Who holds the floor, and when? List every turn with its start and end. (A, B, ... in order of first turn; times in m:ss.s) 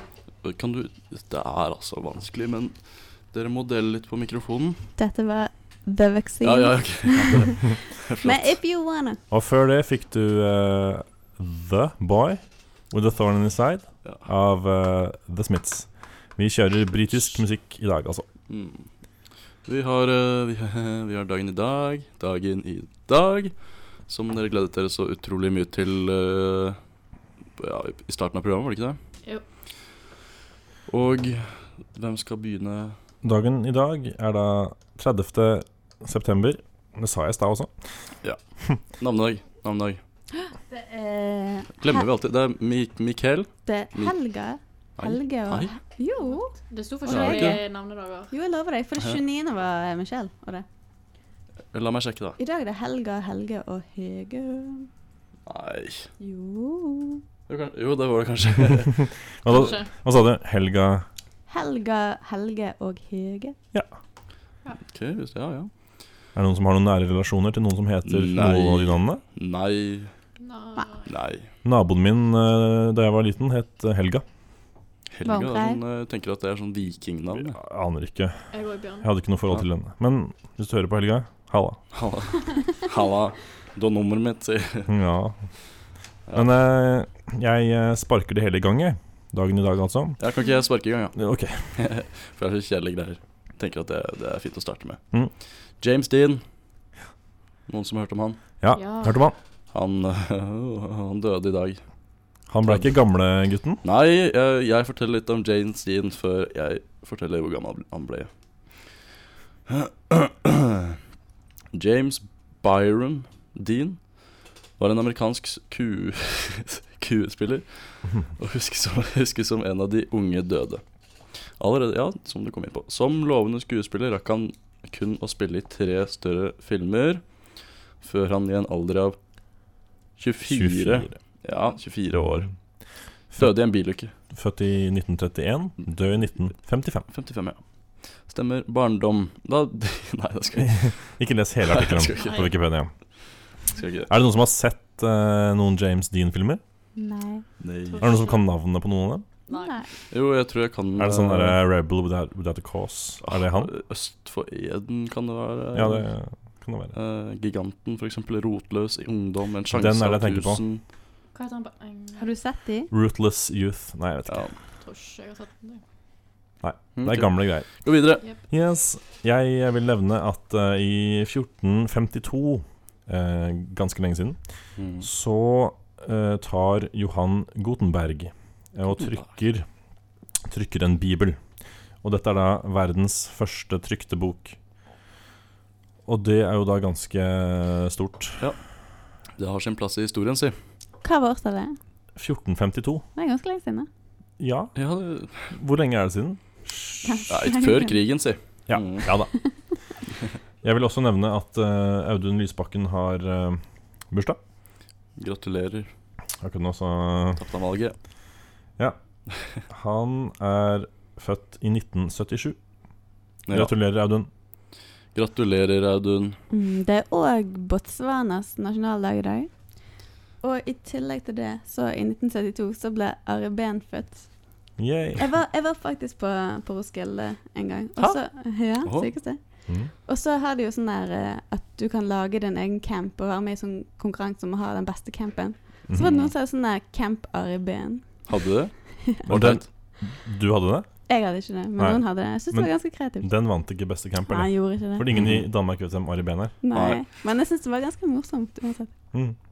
0:00.4-0:04.9 A
0:05.0-0:07.7 B
0:06.4-0:08.6 A
0:08.2-0:09.2 B
0:09.3-0:18.2 C
0:18.5-0:18.9 A
0:19.6-0:26.8 A
0:27.6-0:29.0 A
0:30.9-0:33.0 A
0:33.2-0:37.7 C
0:38.2-0:40.0 A
0:40.4-0:42.1 B
0:41.8-0:44.2 A
0:43.7-0:47.6 B
0:45.0-0:45.8 A
0:46.3-0:48.3 D
0:47.1-0:47.6 A
0:48.3-0:50.6 B
0:51.7-0:52.4 A
0:52.4-0:54.9 B
0:55.5-0:56.1 A
0:56.2-0:57.2 B
0:57.5-0:59.1 A
0:59.0-1:01.1 C
0:59.5-0:59.9 D
1:01.5-1:03.6 B
1:04.8-1:05.7 A
1:06.4-1:09.2 C
1:08.1-1:10.1 A
1:10.4-1:11.1 D
1:11.0-1:11.5 A
1:11.6-1:14.2 C
1:15.1-1:17.6 A
1:15.2-1:15.8 B
1:17.4-1:18.4 C
1:18.5-1:19.1 D
1:19.0-1:21.8 C
1:21.9-1:24.9 A
1:24.9-1:25.4 C
1:26.3-1:30.2 C
1:30.2-1:31.2 A
1:31.1-1:31.8 C
1:31.7-1:35.0 A
1:35.7-1:36.4 A
1:37.7-1:38.4 A
1:38.6-1:39.4 C
1:38.7-1:39.2 D
1:39.7-1:41.8 A
1:42.5-1:43.8 C
1:42.6-1:42.9 A
1:43.8-1:48.3 A
1:49.7-1:51.0 A
1:51.7-1:54.1 A
1:54.8-2:00.8 A
2:01.6-2:07.2 A
2:08.0-2:09.2 A
2:10.2-2:12.5 A
2:10.5-2:11.2 C
2:13.4-2:14.1 A
2:14.3-2:17.1 C
2:17.1-2:17.6 A
2:18.2-2:21.0 A
2:20.6-2:22.9 C
2:21.6-2:22.4 A
2:22.2-2:22.5 D
2:23.7-2:24.1 A
2:24.1-2:26.6 C
2:27.0-2:27.5 B
2:27.6-2:28.2 A
2:27.9-2:28.5 D
2:28.0-2:29.3 C
2:29.5-2:29.8 D
2:29.5-2:29.9 B
2:30.1-2:31.6 A
2:31.0-2:33.7 C
2:33.2-2:36.1 A
2:35.7-2:37.0 C
2:36.9-2:40.8 A
2:39.7-2:40.6 C
2:41.3-2:42.2 D
2:42.2-2:42.9 B
2:42.9-2:44.5 C
2:44.3-2:44.6 A
2:44.8-2:45.8 D
2:46.6-2:54.4 C
2:47.0-2:48.2 A
2:54.8-2:55.1 A
2:55.0-2:59.7 C
2:58.9-2:59.4 A
3:00.5-3:01.4 C
3:02.0-3:04.6 C
3:06.1-3:08.4 C
3:09.4-3:10.6 A
3:11.0-3:11.8 B
3:12.2-3:13.0 C
3:13.2-3:13.9 B
3:14.4-3:14.8 C
3:14.8-3:15.5 A
3:15.5-3:17.3 C
3:17.0-3:18.0 B
3:17.3-3:19.1 A
3:18.7-3:19.3 C
3:20.6-3:24.4 C
3:25.2-3:25.9 A
3:26.4-3:27.4 C
3:27.4-3:28.0 A
3:29.3-3:29.6 A
3:29.7-3:32.6 C
3:33.5-3:33.7 A
3:33.5-3:34.3 C
3:35.1-3:36.4 A
3:36.5-3:44.6 B
3:44.8-3:45.3 C
3:45.2-3:58.3 B
3:48.8-3:49.1 A
3:55.9-3:56.3 C
3:58.3-3:59.7 A
3:59.3-4:00.9 C
4:01.1-4:03.3 B
4:01.8-4:06.6 C
4:04.2-4:05.1 B
4:05.1-4:05.4 A
4:06.6-4:08.9 B
4:06.7-4:07.0 A